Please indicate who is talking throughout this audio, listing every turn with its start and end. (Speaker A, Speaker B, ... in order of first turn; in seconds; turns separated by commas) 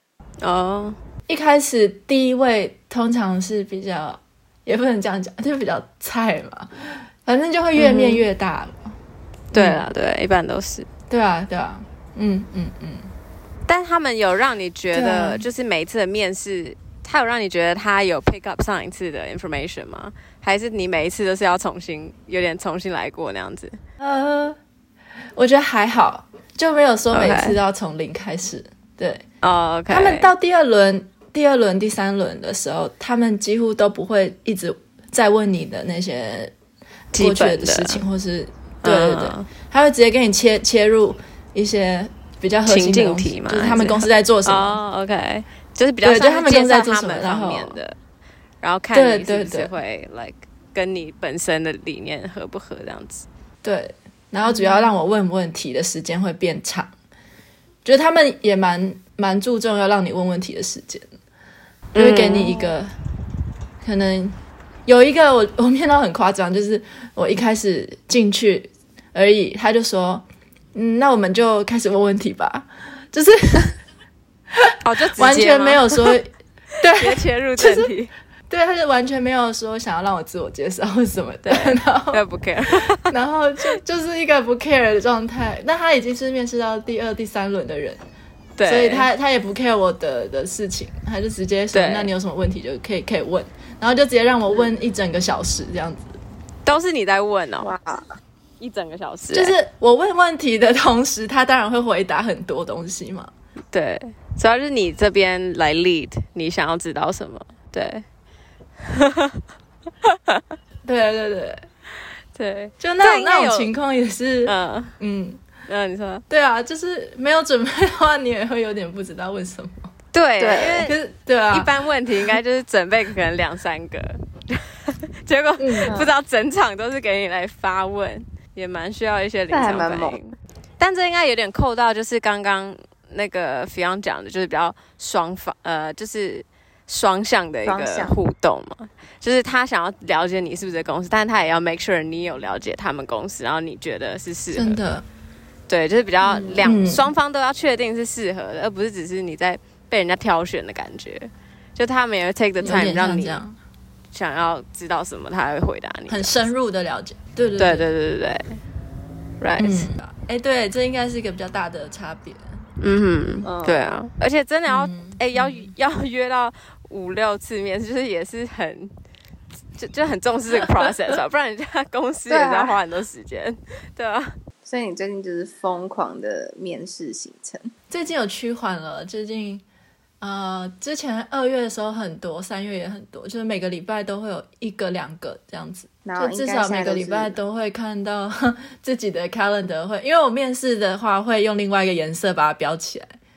Speaker A: 0.4-1.0, Speaker B: 1.3-8.9, Speaker A: 7.8-8.2, Speaker B: 9.5-9.8, Speaker A: 9.5-10.9, Speaker B: 11.1-13.1, Speaker A: 13.7-23.8, Speaker B: 14.9-15.4, Speaker B: 24.0-24.6, Speaker B: 25.4-29.2, Speaker A: 27.1-27.6, Speaker A: 29.4-30.3, Speaker B: 29.9-36.5, Speaker B: 37.1-44.8, Speaker A: 37.1-38.0, Speaker A: 38.8-39.5, Speaker A: 42.6-48.0, Speaker B: 46.0-47.8, Speaker A: 48.6-53.2, Speaker B: 48.9-49.7, Speaker B: 53.6-56.9, Speaker C: 54.6-54.8, Speaker B: 57.8-61.1, Speaker A: 61.9-62.5, Speaker B: 62.0-62.9, Speaker B: 63.8-73.8, Speaker B: 74.6-77.9, Speaker A: 74.8-76.2, Speaker A: 77.0-78.1, Speaker B: 78.5-88.0, Speaker A: 81.4-83.1, Speaker A: 88.6-89.1, Speaker B: 88.6-96.2, Speaker A: 91.7-92.1, Speaker A: 96.6-97.7, Speaker C: 97.6-98.1, Speaker A: 98.6-99.5, Speaker B: 99.3-103.3, Speaker A: 103.7-108.0, Speaker A: 108.8-109.4, Speaker A: 110.0-110.4, Speaker B: 110.8-111.7, Speaker A: 112.3-113.7, Speaker B: 112.8-115.4, Speaker A: 114.4-115.0, Speaker A: 115.7-116.2, Speaker B: 116.3-119.9, Speaker A: 120.1-120.9, Speaker C: 120.4-120.9, Speaker B: 120.5-122.4, Speaker A: 121.5-144.8, Speaker B: 125.6-126.0, Speaker C: 125.9-126.1, Speaker C: 129.5-130.2, Speaker C: 137.6-138.2, Speaker B: 144.5-145.1, Speaker A: 145.7-153.4, Speaker C: 146.2-146.6, Speaker B: 146.6-147.0, Speaker C: 152.6-152.8, Speaker B: 152.6-153.6, Speaker A: 154.1-156.5, Speaker B: 156.1-157.9, Speaker A: 157.6-158.6, Speaker A: 159.4-159.9, Speaker B: 159.6-162.6, Speaker A: 162.8-168.9, Speaker C: 163.4-163.8, Speaker B: 164.7-165.7, Speaker A: 169.8-174.4, Speaker C: 172.3-172.8, Speaker C: 174.6-177.7, Speaker B: 177.9-179.6, Speaker B: 180.2-193.1, Speaker C: 186.0-187.3